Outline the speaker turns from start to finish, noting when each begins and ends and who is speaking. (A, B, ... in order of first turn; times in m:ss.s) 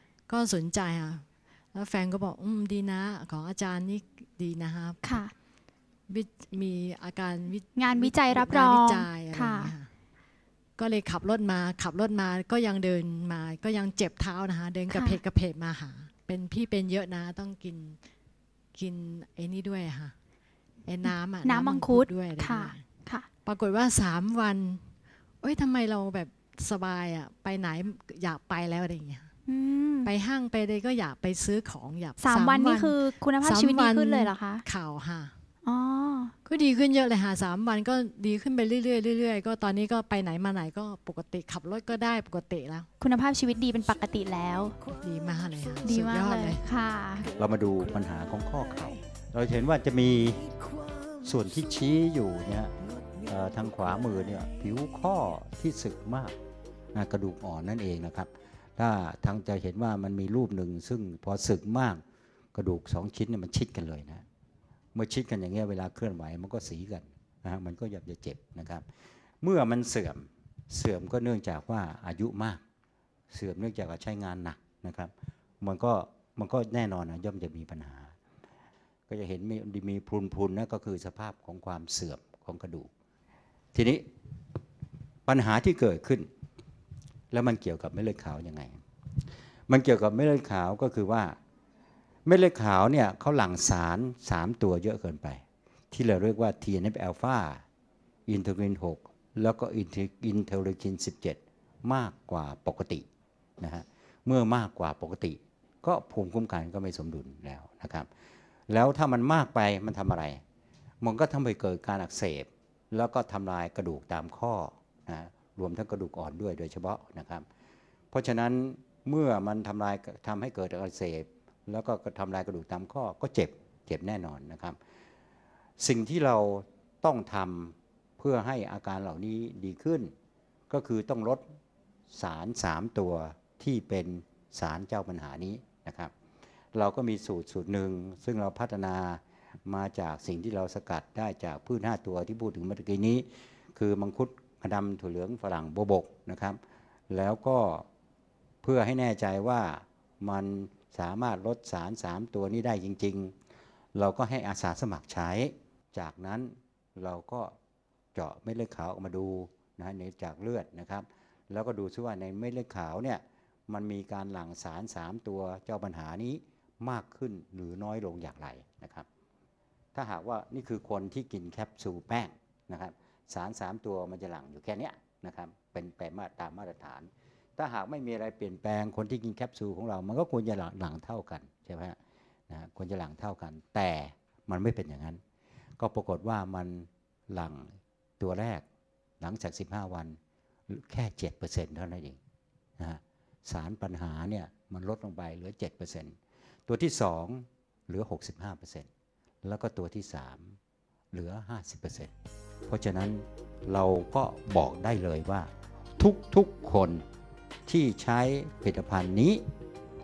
0:00.3-0:05.2 A
0:05.0-0:05.3 B
0:06.1-0:09.9 A
0:07.8-0:09.7 B
0:10.8-0:18.0 A
0:14.9-0:15.2 B
0:18.8-0:20.1 A
0:20.9-0:22.8 A
0:21.0-0:23.3 B
0:23.4-0:24.9 A
0:25.4-0:29.3 A
0:29.5-0:30.1 B
0:30.0-0:35.4 A
0:32.2-0:34.6 B
0:35.6-0:36.3 B
0:36.4-0:42.9 A
0:43.0-0:44.8 B
0:45.0-0:46.6 A
0:45.8-0:47.3 B
0:47.4-0:50.5 C
0:51.2-0:56.4 C
0:56.9-1:02.0 C
1:02.6-1:04.2 C
1:05.0-1:08.9 C
1:09.4-1:12.6 C
1:13.3-1:18.2 C
1:19.1-1:22.9 C
1:23.7-1:24.0 C
1:25.3-1:26.3 C
1:27.3-1:28.8 C
1:29.7-1:31.4 C
1:32.3-1:37.6 C
1:38.3-1:43.1 C
1:43.6-1:48.1 C
1:48.7-1:50.4 C
1:51.0-1:57.4 C
1:58.1-2:04.8 C
2:05.8-2:10.1 C
2:10.7-2:11.5 C
2:12.1-2:16.1 C
2:16.7-2:27.9 C
2:28.6-2:33.3 C
2:34.0-2:37.5 C
2:38.2-2:49.1 C
2:50.0-3:02.0 C
3:02.5-3:05.2 C
3:05.8-3:08.6 C
3:09.2-3:10.2 C
3:10.7-3:12.2 C
3:12.8-3:16.2 C
3:16.7-3:18.9 C
3:19.4-3:20.6 C
3:21.1-3:22.1 C
3:22.7-3:27.0 C
3:27.7-3:29.4 C